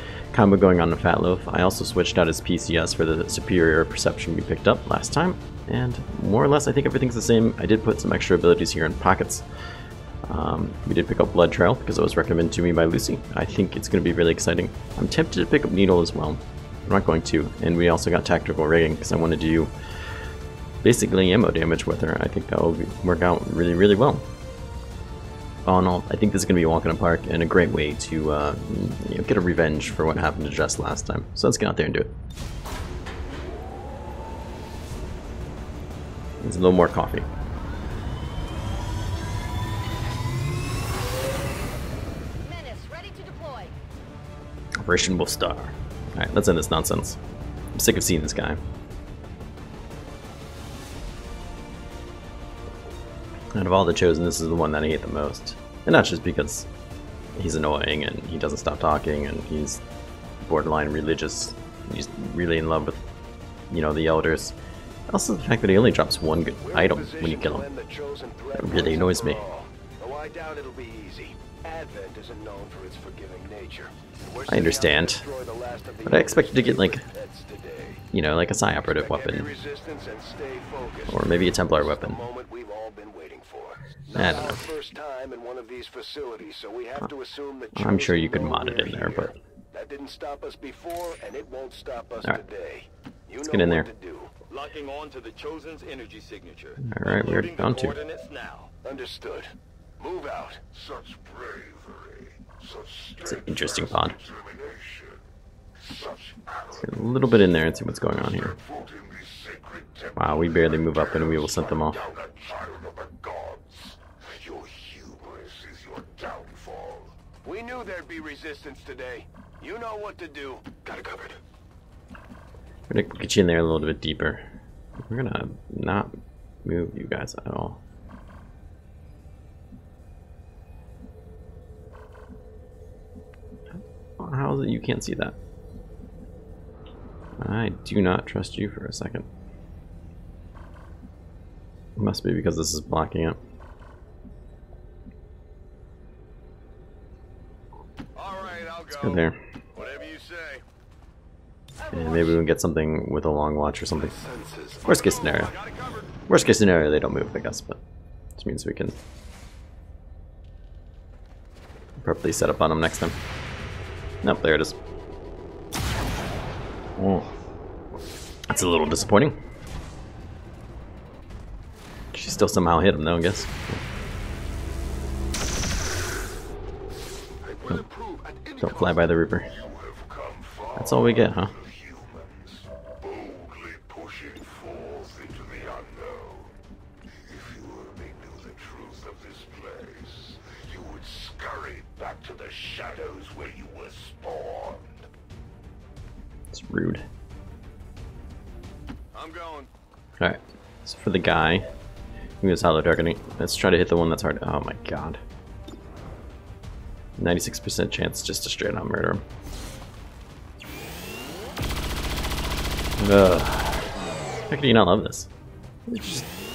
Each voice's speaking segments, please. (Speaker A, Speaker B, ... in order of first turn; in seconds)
Speaker A: 0.3-9.4, 10.3-19.7, 20.8-24.3, 25.7-32.1, 36.4-37.3, 44.8-47.2, 47.7-48.6, 53.5-56.7, 57.4-59.8, 60.4-63.0, 63.7-64.5, 65.1-67.7, 68.5-69.4, 74.5-75.3, 76.0-77.1, 78.1-79.5, 81.1-82.2, 84.1-84.6, 87.7-89.3, 93.4-93.9, 96.8-98.0, 103.2-104.2, 106.8-108.6, 110.2-112.0, 122.9-124.4, 125.0-127.8, 133.7-135.4, 137.4-139.3, 142.0-143.4, 148.9-149.4, 151.9-154.2, 154.8-155.5, 156.3-157.8, 158.4-159.0, 162.0-163.2, 164.2-164.8, 167.0-167.3, 168.5-169.4, 172.1-173.8, 178.6-179.5, 180.8-181.5, 196.5-197.1, 200.2-201.7, 202.4-205.2, 207.2-209.2, 213.0-213.9, 214.5-215.3, 215.9-216.3
Speaker B: 42.4-43.8, 151.8-152.4
Speaker C: 66.6-78.0, 78.8-94.4, 98.8-100.7, 117.4-121.4, 153.9-155.0, 177.4-179.1
Speaker D: 94.5-98.7, 148.2-149.2, 149.8-150.6, 154.9-156.1, 199.1-199.7
Speaker E: 100.7-117.2, 179.5-186.6, 187.2-195.1